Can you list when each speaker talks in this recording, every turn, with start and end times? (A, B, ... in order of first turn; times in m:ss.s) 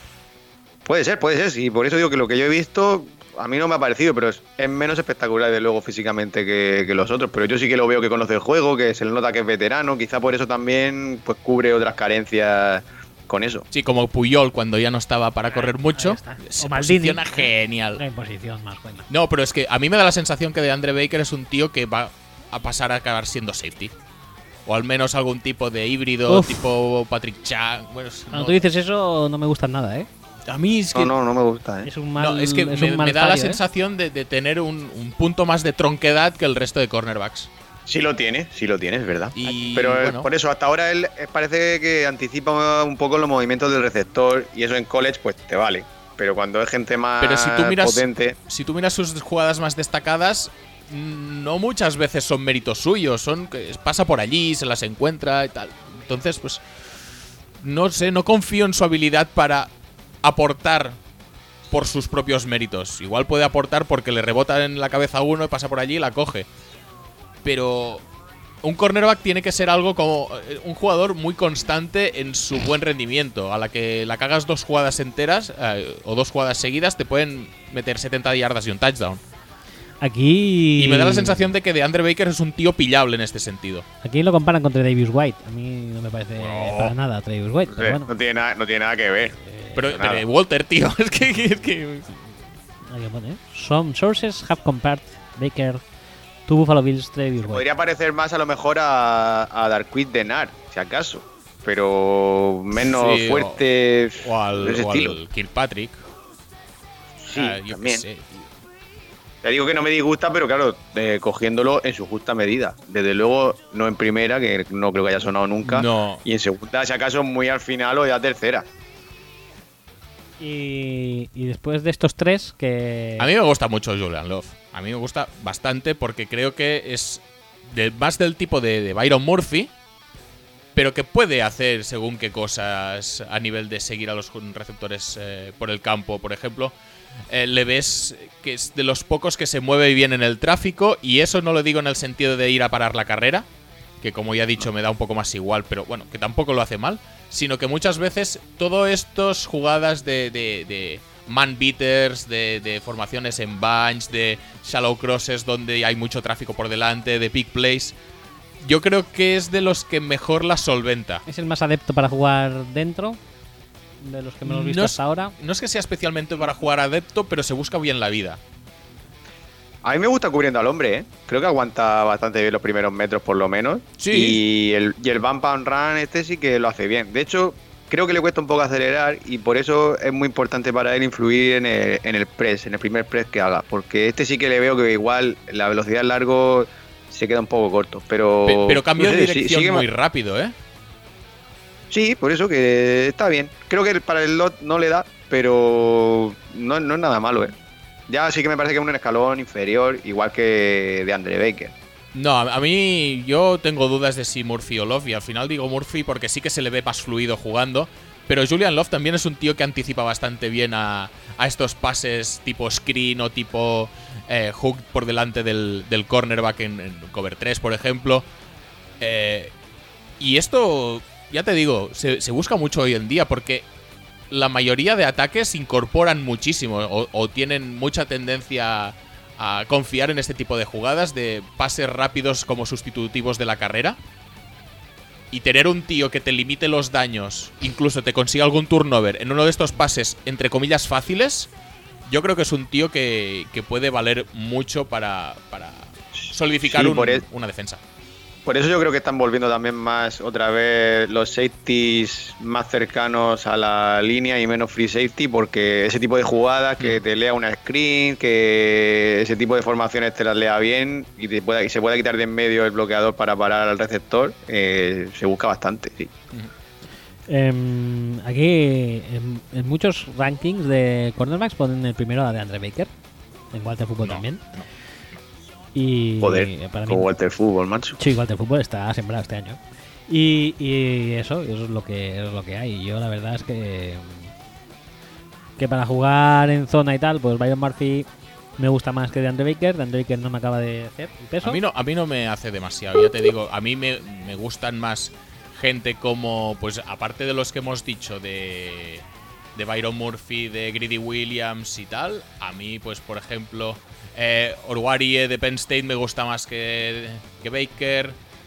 0:00.8-0:13.7 A
0:13.7-0:18.0 B
0:15.5-0:19.1 C
0:19.1-0:23.9 B
0:24.7-0:28.6 B
0:26.3-0:26.7 C
0:28.3-0:30.1 C
0:30.5-0:31.1 B
0:30.9-0:31.9 A
0:31.8-0:33.6 C
0:32.2-0:37.5 B
0:37.9-0:48.4 A
0:39.4-0:40.3 B
0:47.2-0:56.6 B
0:57.6-0:59.7 B
1:00.2-1:01.0 B
1:01.7-1:06.5 B
1:07.4-1:08.0 B
1:08.6-1:19.2 B
1:20.0-1:21.5 C
1:20.8-1:23.9 B
1:24.0-1:28.1 C
1:26.4-1:26.9 B
1:27.7-1:29.4 A
1:29.5-1:29.8 C
1:29.8-1:32.2 B
1:29.9-1:30.2 A
1:32.9-1:35.8 C
1:36.5-1:37.6 C
1:37.5-1:45.2 A
1:42.9-1:43.6 B
1:44.2-1:46.0 B
1:47.2-1:48.0 A
1:47.3-1:48.4 B
1:49.4-1:58.7 A
1:55.6-1:56.2 B
2:00.4-2:03.3 C
2:03.2-2:09.7 B
2:10.8-2:16.7 B
2:17.3-2:23.5 B
2:24.0-2:38.0 B
2:38.6-2:41.2 B
2:41.3-2:43.2 C
2:44.0-2:45.4 C
2:44.4-2:48.4 B
2:49.8-3:09.9 A
2:54.0-2:54.4 B
3:08.5-3:10.5 B
3:11.9-3:17.5 A
3:18.1-3:21.7 A
3:22.1-3:38.3 B
3:39.0-3:39.5 B
3:40.2-3:43.6 B
3:44.3-3:54.0 B
3:55.3-4:01.5 B
4:02.1-4:07.8 B
4:06.6-4:07.2 A
4:08.5-4:26.1 A
4:27.3-4:32.9 C
4:33.5-4:34.4 C
4:34.0-4:34.7 B
4:35.8-4:37.1 C
4:36.2-4:38.0 A
4:38.0-4:44.3 C
4:45.6-4:51.6 C
4:51.4-4:59.0 B
4:59.6-5:08.2 B